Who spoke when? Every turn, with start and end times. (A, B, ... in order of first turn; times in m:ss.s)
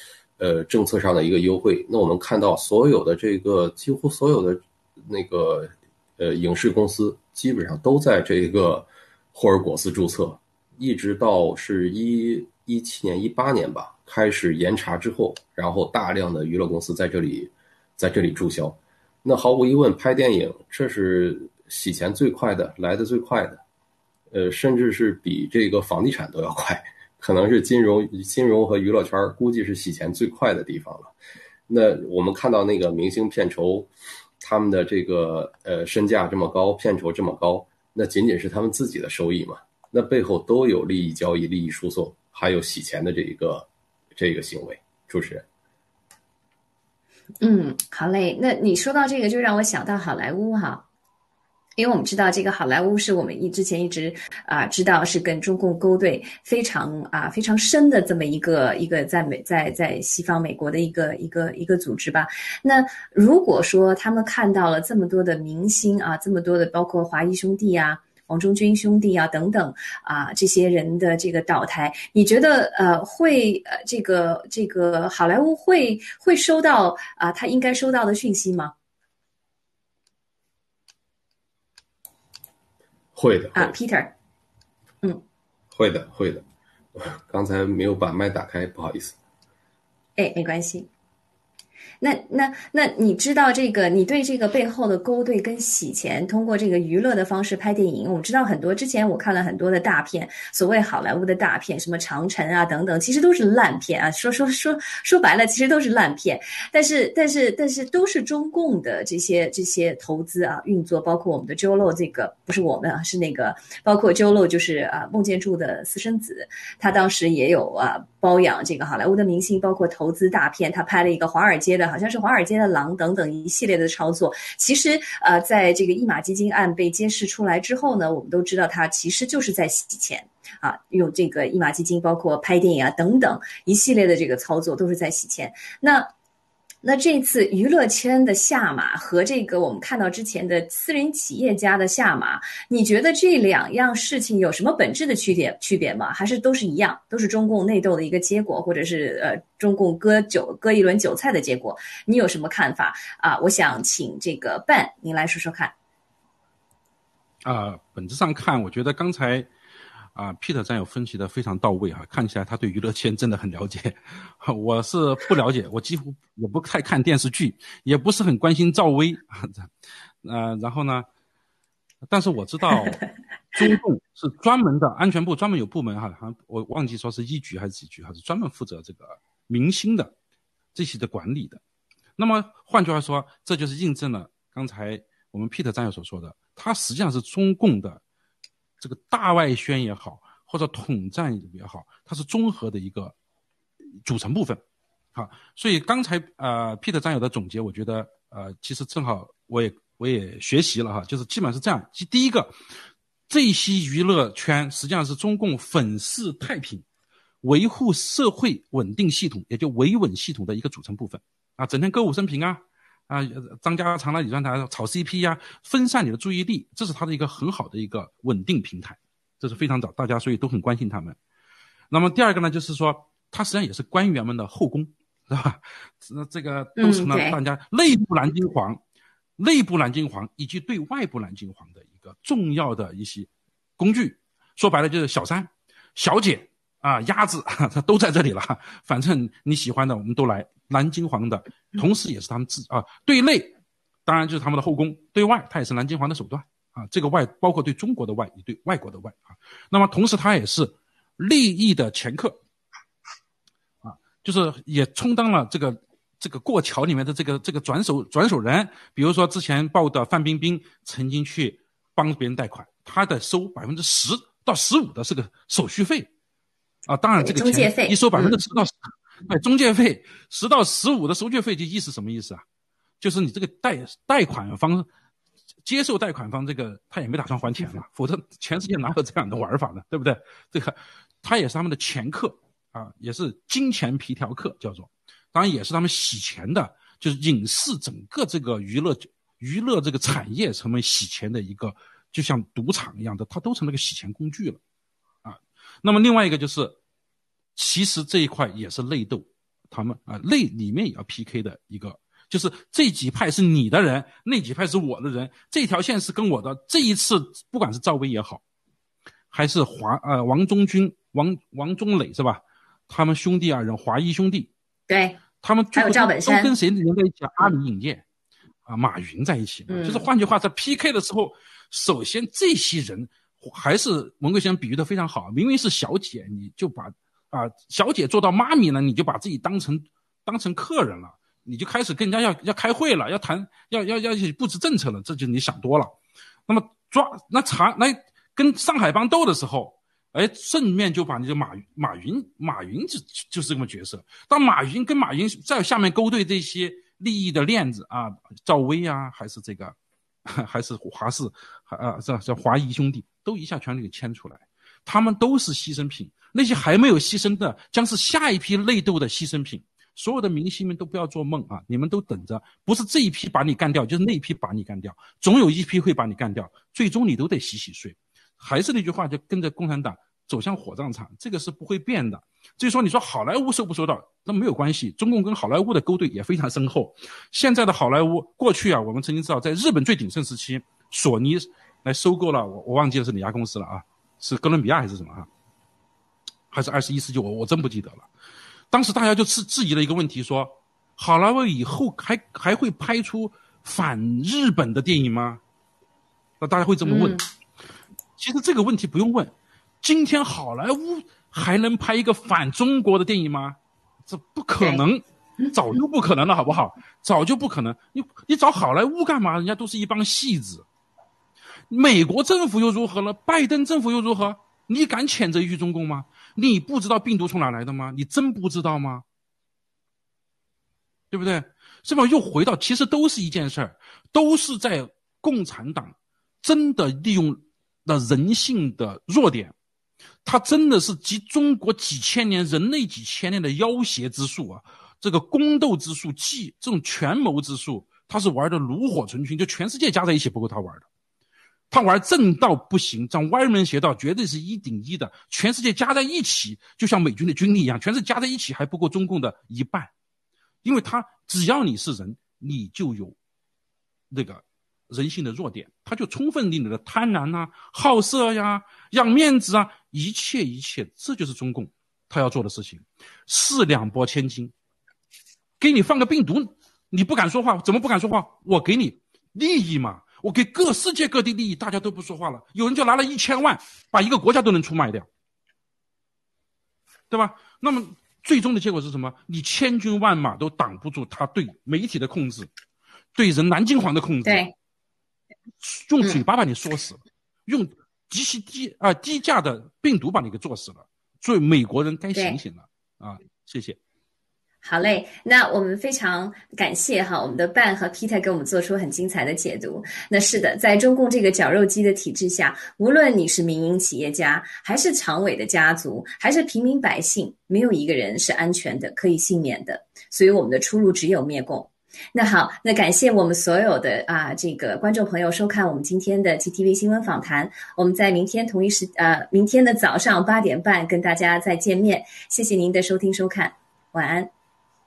0:00.4-0:23.6 A
0:24.3-0:31.1 A
0:31.7-0:33.9 A
0:34.4-0:45.4 A
0:47.4-0:50.8 B
0:51.8-1:18.7 B
1:23.2-1:23.7 A
1:23.5-1:24.1 B
1:25.7-1:26.4 A
1:27.0-1:29.2 A
1:30.2-1:30.9 B
1:32.0-2:16.1 B
2:16.8-2:35.7 B
2:37.4-2:39.5 C
2:40.1-2:49.7 C
2:50.2-2:51.1 C
2:52.1-3:00.1 C
3:00.7-3:01.6 C
3:02.2-3:08.0 C
3:08.8-3:13.1 C
3:14.0-3:14.6 C
3:15.1-3:22.6 C
3:23.3-3:26.8 C
3:27.4-3:41.2 C
3:41.9-3:48.8 C
3:46.8-3:47.4 B
3:49.4-4:03.5 C
4:04.0-4:12.4 C
4:13.8-4:26.1 C
4:26.9-4:32.4 C
4:27.2-4:28.4 B
4:33.0-4:34.9 C
4:35.6-4:54.6 C
4:55.2-4:56.8 C
4:57.5-5:08.4 C
5:09.3-5:14.5 C
5:14.9-5:15.2 B
5:15.4-5:18.0 C
5:15.7-5:16.5 B
5:18.6-5:36.0 C
5:19.7-5:20.0 B
5:36.5-6:25.3 C
6:26.5-6:28.1 C
6:28.7-6:35.4 C
6:36.4-6:37.2 C
6:36.8-6:37.2 B
6:38.2-6:50.6 C
6:45.4-6:45.8 B
6:51.7-6:59.0 C
7:01.1-7:09.5 C
7:10.2-7:20.8 C
7:21.7-7:29.9 C
7:30.6-7:33.2 C
7:34.1-7:44.5 C
7:45.6-7:55.1 C
7:57.1-8:02.5 C
8:03.1-8:04.4 C
8:04.2-8:04.5 B
8:05.6-8:13.8 C
8:12.1-8:12.4 B
8:14.6-8:44.3 B